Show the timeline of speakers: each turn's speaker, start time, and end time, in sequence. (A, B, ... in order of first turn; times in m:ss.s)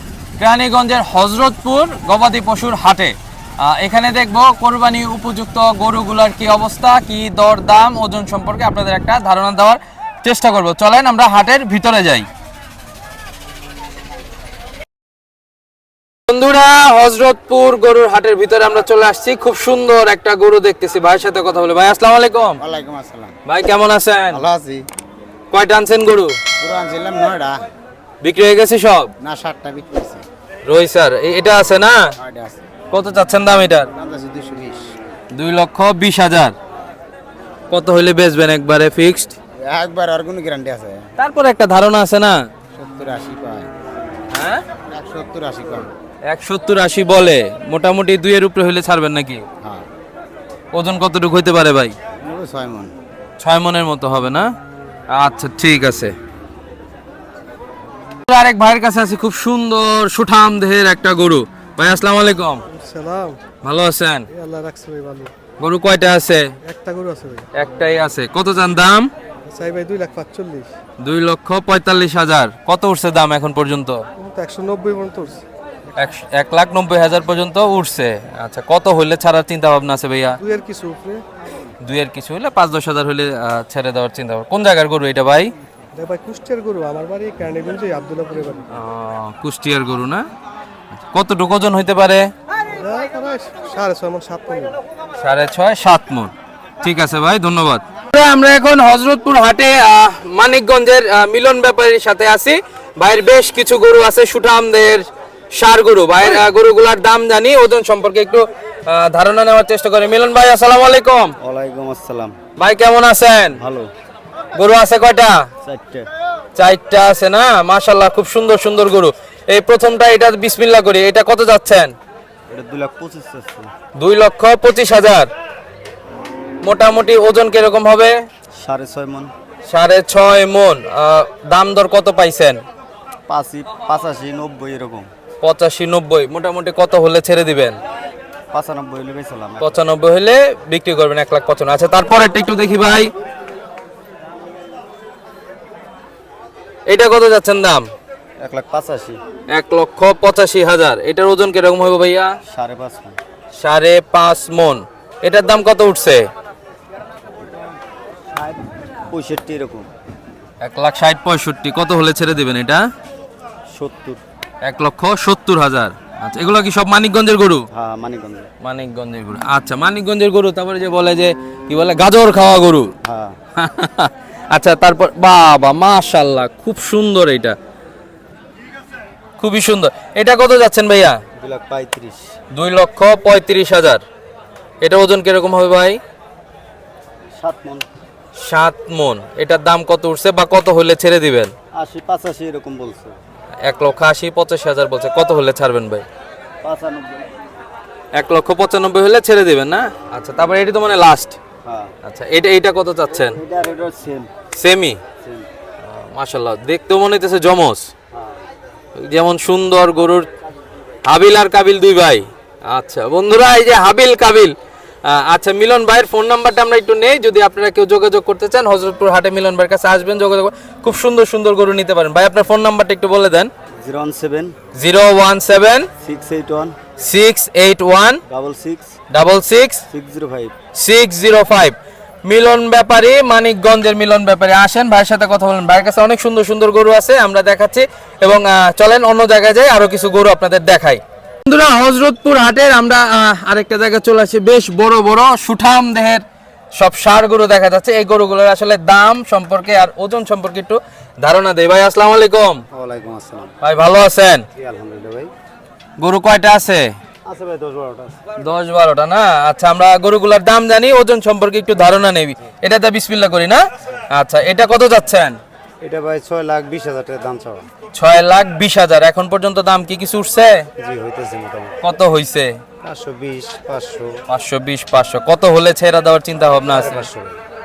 0:00.4-0:12.3 A
0:16.3-0:22.6 A
0:22.6-0:23.4 B
0:23.5-0:24.4 A
0:24.3-0:24.8 B
0:25.5-0:26.4 A
0:26.6-0:27.6 B
0:28.2-0:29.1 A
0:29.2-0:30.2 B
0:30.6-0:32.1 A
0:32.2-0:32.6 B
0:32.9-0:33.9 A
0:33.9-0:34.9 B
0:35.3-0:36.6 A
0:37.7-0:39.4 A
0:39.6-0:41.1 B
0:41.2-0:42.4 A
0:42.8-0:43.7 B
0:44.3-0:44.6 A
0:44.9-0:45.9 B
0:46.2-0:49.4 A
0:50.7-0:52.0 A
0:52.2-0:52.9 B
0:53.4-0:54.5 A
0:55.1-0:56.1 A
0:58.3-1:02.6 A
1:02.7-1:03.4 C
1:03.6-1:04.3 A
1:04.3-1:05.3 C
1:05.6-1:06.5 A
1:06.6-1:07.5 C
1:07.5-1:09.1 A
1:09.5-1:10.7 C
1:11.0-1:14.0 A
1:14.2-1:15.4 C
1:16.0-1:20.4 A
1:20.4-1:21.2 C
1:21.8-1:25.5 A
1:25.9-1:28.7 C
1:28.7-1:30.3 A
1:31.1-1:32.3 A
1:32.7-1:34.8 C
1:35.2-1:51.4 A
1:51.4-1:52.3 B
1:52.6-1:53.6 A
1:53.6-1:53.9 B
1:54.6-1:55.5 A
1:55.6-1:56.0 B
1:56.6-2:02.0 A
2:02.5-2:03.7 B
2:04.0-2:05.3 A
2:06.6-2:08.2 A
2:08.6-2:09.3 B
2:09.7-2:12.6 A
2:13.3-2:15.1 B
2:15.4-2:17.8 A
2:18.5-2:19.7 B
2:19.6-2:23.1 A
2:26.9-2:27.9 A
2:28.4-2:29.2 B
2:29.5-2:32.4 A
2:32.5-2:33.2 B
2:33.6-2:36.3 A
2:38.3-2:38.6 B
2:39.1-2:39.9 B
2:40.6-2:42.8 A
2:43.7-2:44.2 B
2:44.6-2:47.7 A
2:47.7-2:48.5 B
2:48.6-2:52.9 A
2:53.1-2:53.4 B
2:53.6-2:57.6 A
2:59.4-3:01.2 A
3:01.4-3:02.2 B
3:02.5-3:04.0 A
3:04.8-3:06.0 A
3:07.4-3:07.8 B
3:08.4-3:11.5 A
3:11.8-3:13.2 B
3:13.6-3:16.1 A
3:16.6-3:17.3 B
3:18.1-3:21.4 A
3:21.7-3:21.9 B
3:22.0-3:23.4 A
3:23.3-3:24.3 B
3:24.6-3:25.0 A
3:25.8-3:27.9 A
3:29.0-3:30.3 A
3:31.1-3:43.5 A
3:43.8-3:44.5 B
3:44.7-3:45.9 A
3:46.0-3:46.8 B
3:47.0-3:48.2 A
3:48.3-3:48.9 B
3:49.1-3:49.8 A
3:49.9-3:50.5 B
3:50.8-4:06.2 A
4:06.8-4:12.6 A
4:12.7-4:13.5 B
4:13.6-4:14.5 A
4:14.6-4:15.3 B
4:16.0-4:16.9 A
4:17.3-4:18.2 B
4:18.4-4:25.4 A
4:25.8-4:27.7 B
4:27.9-4:30.7 A
4:30.8-4:31.8 B
4:31.8-4:32.6 A
4:32.8-4:34.2 B
4:34.3-4:37.1 A
4:36.5-4:37.4 B